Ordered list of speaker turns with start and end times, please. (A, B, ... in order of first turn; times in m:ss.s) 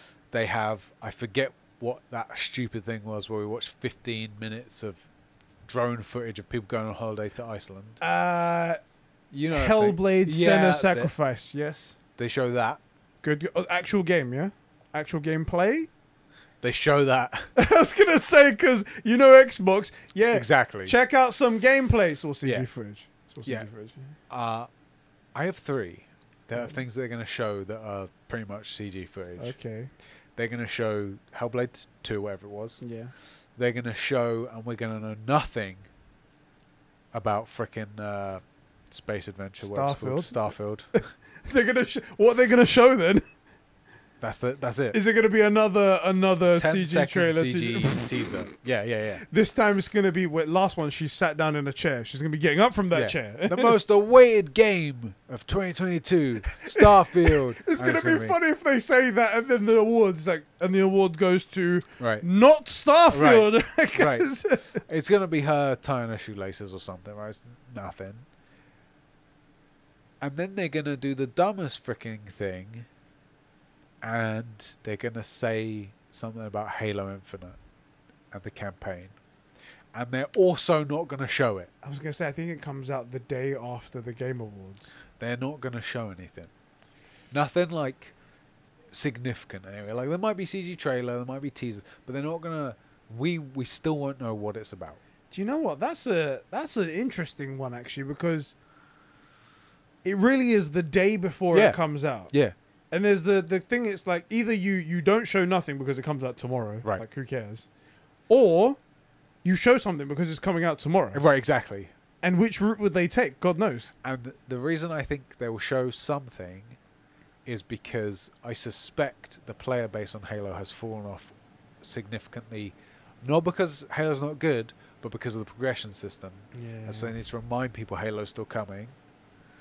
0:00.3-0:05.1 A
0:05.7-0:08.0 A
0:08.0-0:08.8 B
0:09.3-0:11.1 A
0:09.5-0:12.0 B
0:12.2-0:12.8 A
0:13.2-0:15.9 B
0:16.6-0:17.5 A
0:17.6-0:24.2 B
0:20.3-0:21.0 A
0:24.3-0:24.7 A
0:25.4-0:29.6 A
0:29.4-0:29.9 B
0:30.4-0:32.8 A
0:32.8-0:33.1 B
0:33.6-0:35.9 A
0:37.1-0:40.9 A
0:39.6-0:40.4 B
0:41.0-0:43.3 B
0:44.2-0:45.0 A
0:44.9-0:48.2 B
0:46.5-0:49.2 A
0:49.3-0:53.8 B
0:52.9-0:58.4 A
0:56.5-1:04.8 B
1:02.0-1:02.2 A
1:03.1-1:08.3 A
1:10.2-1:12.9 A
1:14.0-1:17.6 A
1:18.3-1:19.2 A
1:19.9-1:21.7 A
1:21.8-1:24.9 B
1:25.2-1:26.5 A
1:27.3-1:28.1 A
1:28.9-1:35.0 A
1:35.3-1:38.6 B
1:40.0-1:42.3 B
1:41.5-1:41.8 A
1:42.9-1:47.7 B
1:48.3-1:48.8 B
1:49.4-1:51.2 B
1:51.1-1:51.9 A
1:52.2-1:53.9 B
1:54.0-1:56.8 A
1:57.4-2:09.0 A
2:06.5-2:07.1 B